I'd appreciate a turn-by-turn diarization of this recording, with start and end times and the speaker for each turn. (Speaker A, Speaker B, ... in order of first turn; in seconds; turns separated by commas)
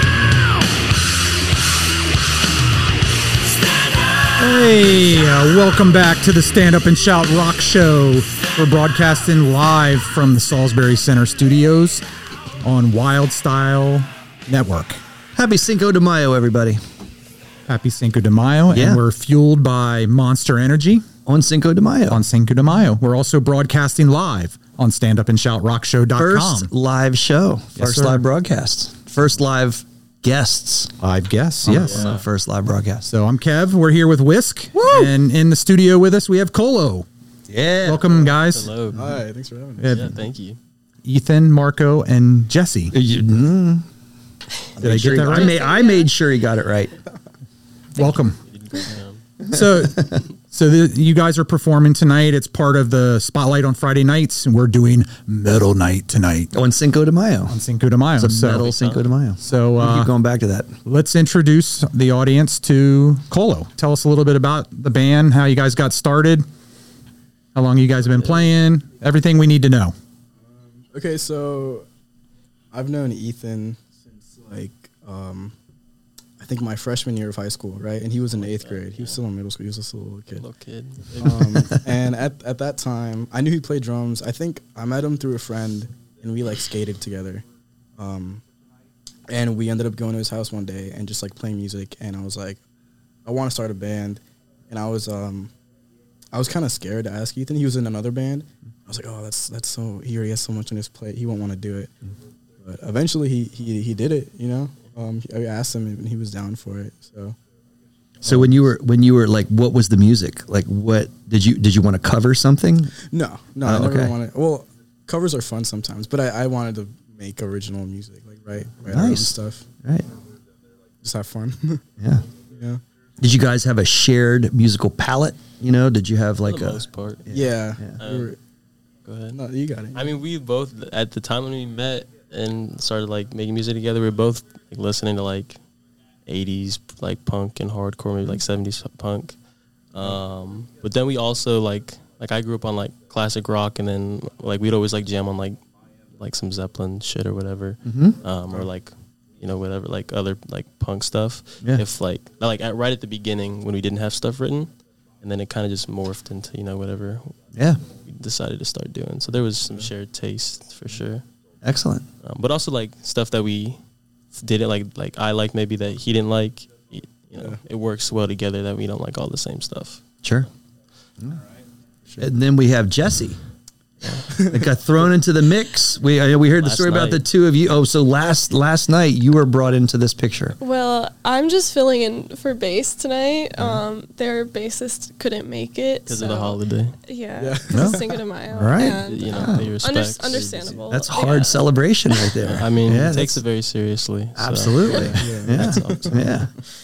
Speaker A: 4.4-12.1, Speaker A: 12.6-15.0, Speaker B: 15.3-16.8, Speaker A: 17.7-21.1, Speaker B: 18.7-19.0, Speaker B: 21.3-22.2, Speaker A: 22.1-26.7, Speaker B: 26.2-30.9, Speaker A: 27.8-28.2, Speaker A: 31.0-32.0, Speaker B: 31.6-33.1, Speaker C: 31.7-32.3, Speaker A: 33.0-37.1, Speaker B: 34.8-35.1, Speaker B: 37.5-38.1, Speaker A: 37.8-38.7, Speaker C: 38.4-39.0, Speaker D: 38.9-39.9, Speaker A: 39.8-40.1, Speaker C: 39.8-40.6, Speaker A: 41.0-42.9, Speaker B: 42.9-43.9, Speaker B: 44.8-47.0, Speaker A: 44.8-45.6, Speaker E: 45.4-46.1, Speaker A: 48.0-48.4, Speaker C: 48.4-49.2, Speaker A: 49.5-56.5, Speaker B: 49.5-50.2, Speaker B: 56.5-57.6, Speaker A: 57.5-58.7, Speaker B: 58.2-60.8, Speaker C: 58.6-59.0, Speaker A: 59.4-60.1, Speaker A: 60.9-66.5, Speaker A: 67.5-69.9, Speaker C: 68.2-68.5, Speaker D: 70.4-71.9, Speaker D: 72.7-75.5, Speaker D: 76.4-80.5, Speaker C: 78.3-79.2, Speaker C: 80.4-81.9, Speaker D: 81.2-87.5, Speaker D: 88.0-88.4, Speaker D: 89.3-92.6, Speaker D: 93.2-95.5, Speaker D: 96.3-101.9, Speaker D: 102.6-107.4, Speaker D: 108.2-108.6, Speaker B: 108.2-112.9, Speaker D: 113.1-119.7, Speaker B: 113.6-114.2, Speaker B: 118.9-120.1, Speaker D: 121.0-121.8, Speaker B: 122.0-122.3, Speaker D: 122.5-122.8, Speaker B: 123.2-128.0, Speaker C: 126.5-128.3, Speaker D: 127.3-128.4, Speaker C: 129.1-129.4, Speaker D: 129.3-130.1, Speaker C: 129.9-135.6, Speaker C: 136.3-139.4, Speaker C: 139.9-145.6, Speaker C: 146.2-157.4, Speaker B: 147.8-148.2, Speaker B: 157.5-157.8, Speaker C: 157.9-161.2, Speaker B: 161.6-162.1, Speaker C: 162.2-163.8, Speaker C: 164.3-170.0, Speaker B: 170.2-170.5, Speaker D: 172.1-172.3, Speaker B: 172.2-173.4, Speaker C: 174.0-174.3, Speaker B: 174.5-180.6, Speaker C: 176.6-177.2, Speaker E: 180.6-192.4, Speaker C: 186.1-187.0, Speaker D: 187.4-188.2, Speaker B: 187.7-189.7, Speaker C: 188.9-190.8, Speaker D: 190.2-190.9, Speaker B: 190.9-193.4, Speaker C: 192.4-196.4, Speaker B: 194.4-196.5, Speaker D: 195.2-196.4